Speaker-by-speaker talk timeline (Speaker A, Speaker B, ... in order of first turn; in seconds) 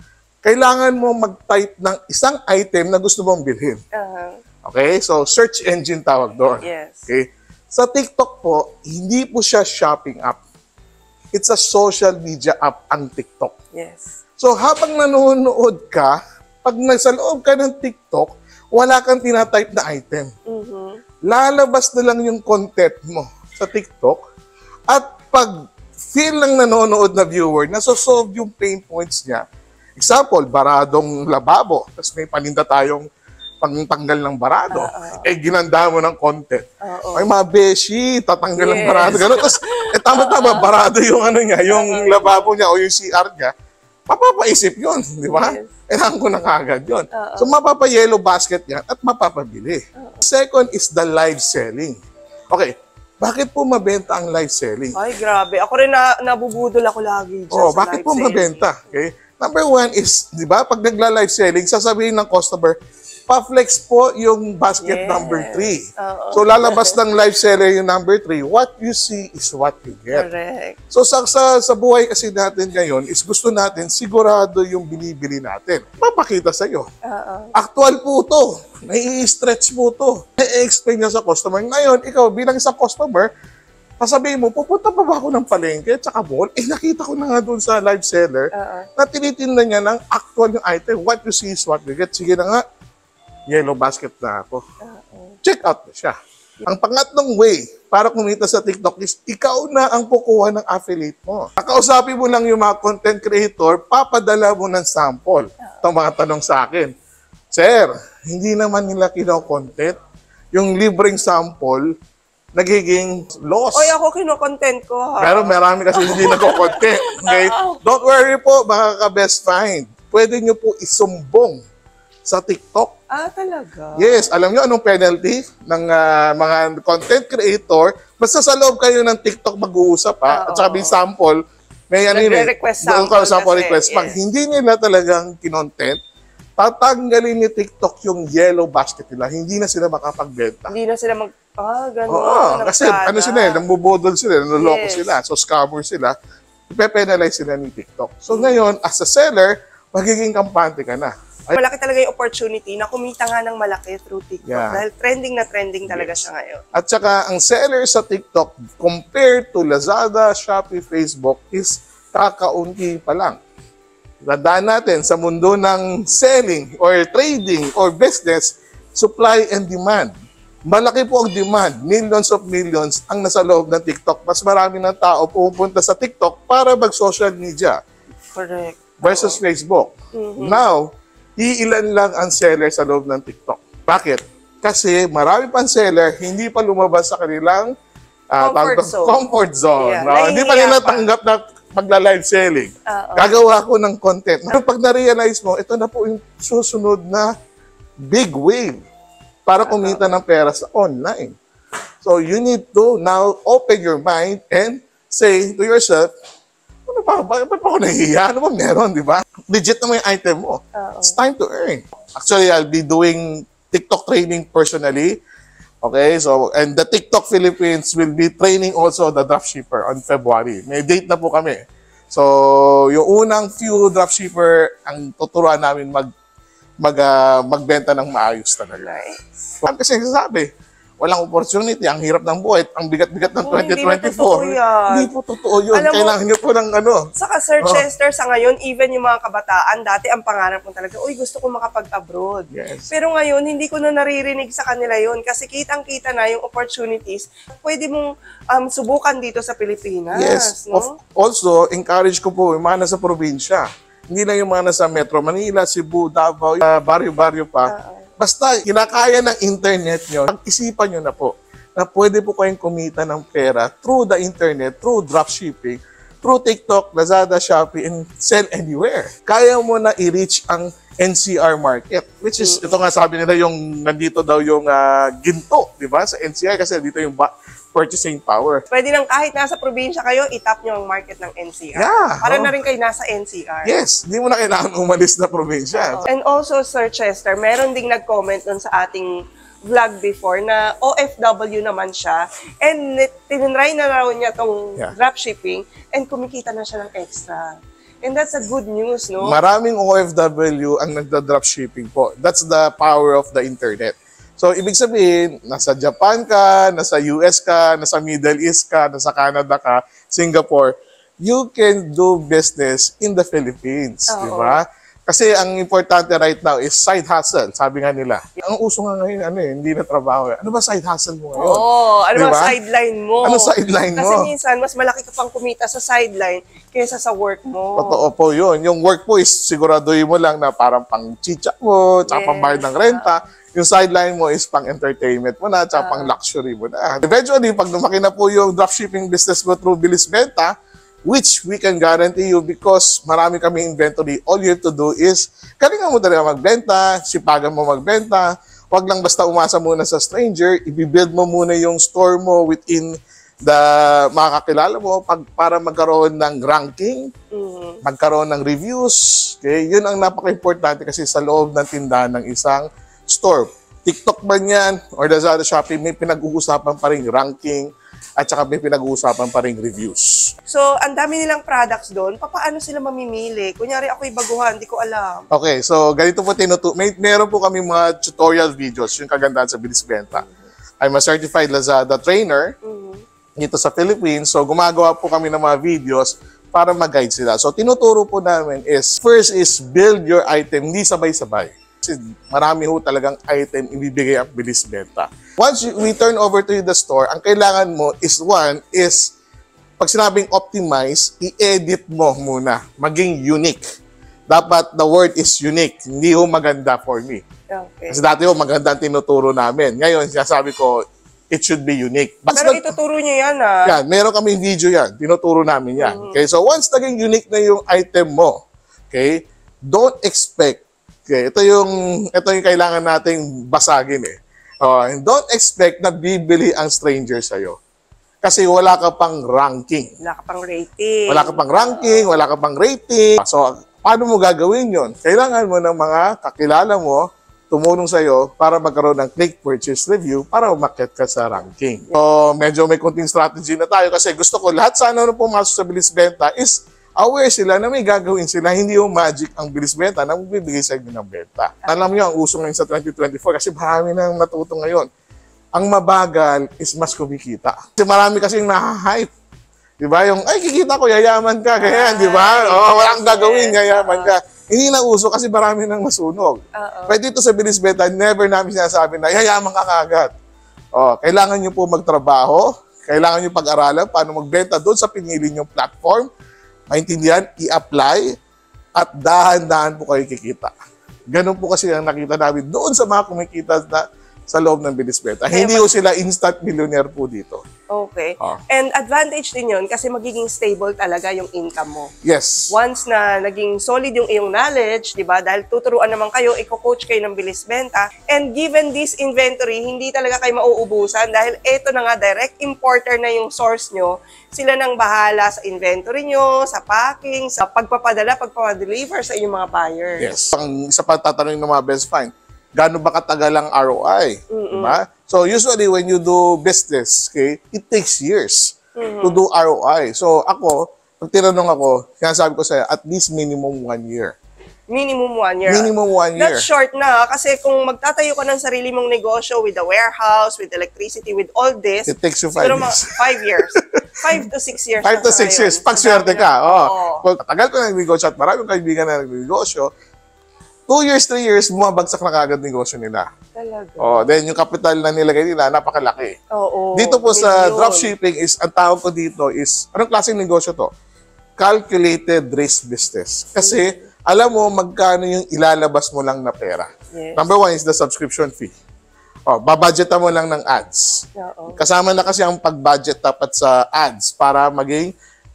Speaker A: 0.4-3.8, 4.6-10.4, 11.3-13.5, 14.4-20.3, 21.2-24.2, 24.9-25.5, 26.1-29.4, 30.0-33.1, 33.6-43.5, 44.1-52.0, 52.5-55.0, 57.5-62.8, 63.3-70.3, 70.9-76.9, 77.5-83.3, 84.0-92.6, 93.5-94.6, 95.4-106.9, 107.5-110.0, 110.5-111.9, 112.5-113.9, 115.2-121.6, 122.3-123.0, 124.0-131.4, 131.9-136.0, 136.6-140.7, 142.1-146.2, 146.7-151.6, 154.5-154.8, 155.9-163.4, 164.2-170.1, 170.7-177.8, 179.0-187.7, 188.3-197.3, 198.1-198.8, 199.5-201.4, 202.0-206.1, 206.9-215.2, 215.8-221.6, 222.1-226.1, 226.8-228.9, 229.6-230.5, 231.0-237.8, 242.5-242.9, 250.1-278.6, 281.8-282.5, 283.6-286.0, 299.2-322.6, 323.2-324.3, 327.8-340.5, 341.1-357.1, 357.8-370.3, 375.3-380.2, 380.8-382.5, 383.4-399.1, 399.8-403.6, 404.3-407.2, 407.9-412.8, 413.6-427.6, 428.2-429.9, 431.1-454.9, 455.6-459.1, 459.8-470.1, 470.8-476.1, 476.7-478.1, 478.8-480.5, 481.1-487.4, 492.0-492.5, 510.0-524.1, 525.5-526.5, 531.9-534.3, 534.8-539.7, 540.7-543.1, 543.8-546.2, 546.8-550.7, 551.4-558.5, 559.3-564.9
Speaker B: 4.0-4.4, 6.6-7.1, 13.7-14.2, 20.5-21.0, 34.7-35.3, 36.8-37.3, 38.6-40.7, 41.7-42.5, 45.3-45.7, 47.1-47.6, 50.0-50.2, 55.0-58.6, 64.8-67.0, 70.1-70.8, 77.1-77.5, 88.5-88.9, 94.8-95.4, 113.7-117.8, 123.1-124.3, 130.3-131.0, 132.1-134.2, 140.7-143.6, 144.6-145.1, 148.3-148.6, 151.6-156.6, 178.3-179.4, 180.1-180.6, 188.4-189.2, 189.8-191.1, 192.9-193.4, 199.7-200.2, 210.8-211.2, 228.7-229.2, 233.4-235.1, 235.7-236.2, 237.2-250.9, 257.7-258.1, 272.4-272.8, 278.7-283.7, 285.8-289.1, 289.6-299.4, 314.1-314.6, 321.4-328.1, 332.1-333.2, 335.7-336.2, 357.3-357.8, 370.5-375.3, 382.6-383.0, 407.5-408.0, 412.3-413.8, 415.8-416.2, 430.0-432.1, 451.6-451.9, 461.6-464.1, 466.6-467.0, 485.3-485.7, 487.7-491.9, 492.5-510.4, 514.3-514.8, 518.8-519.2, 524.7-537.1, 543.4-544.1, 546.3-547.9, 553.4-553.9, 556.9-557.3, 561.2-561.6